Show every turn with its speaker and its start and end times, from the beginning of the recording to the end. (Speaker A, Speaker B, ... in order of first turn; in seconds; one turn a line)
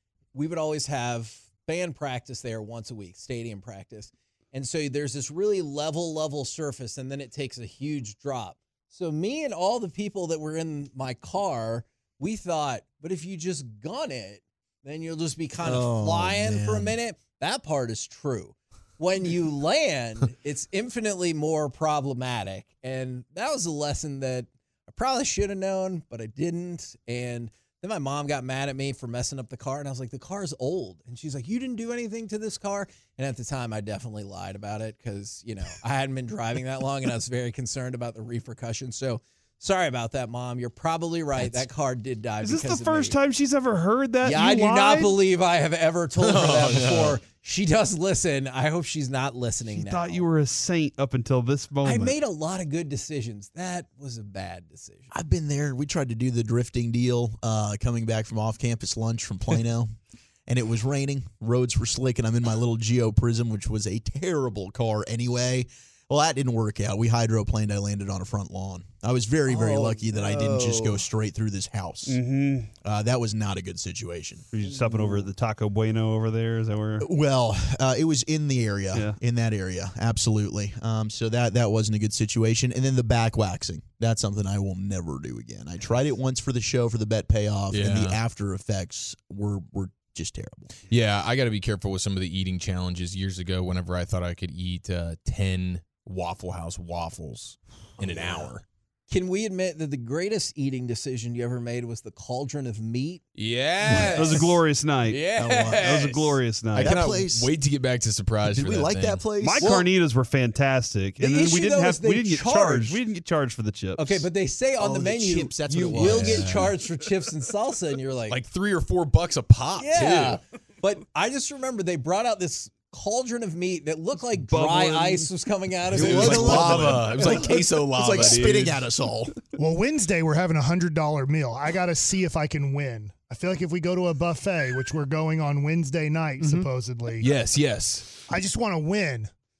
Speaker A: 0.3-43.2
Speaker B: 15.6-16.9
Speaker C: 42.4-45.1
Speaker A: 44.2-50.3
Speaker D: 46.1-47.2
Speaker C: 49.7-52.2
Speaker A: 51.8-55.1
Speaker B: 55.1-59.9
Speaker B: 60.5-72.2
Speaker A: 69.5-71.0
Speaker C: 72.0-72.7
Speaker B: 72.8-74.5
Speaker C: 74.5-77.1
Speaker A: 74.9-75.1
Speaker B: 77.0-90.7
Speaker C: 78.9-79.2
Speaker D: 87.7-88.2
Speaker D: 90.9-98.6
Speaker B: 98.0-98.5
Speaker A: 99.1-103.2
Speaker D: 103.4-104.5
Speaker A: 103.8-104.5
Speaker C: 104.0-105.2
Speaker A: 105.1-106.3
Speaker D: 105.1-106.1
Speaker B: 105.4-105.8
Speaker C: 105.8-107.0
Speaker D: 106.7-109.3
Speaker B: 106.8-107.5
Speaker B: 108.4-109.8
Speaker C: 109.4-114.2
Speaker A: 111.2-113.0
Speaker A: 114.0-118.4
Speaker B: 114.8-116.6
Speaker D: 115.9-116.8
Speaker D: 118.3-120.4
Speaker A: 119.8-127.2
Speaker C: 124.4-125.3
Speaker D: 125.9-128.9
Speaker B: 125.9-129.3
Speaker E: 129.6-137.3
Speaker D: 137.2-138.2
Speaker E: 138.3-139.3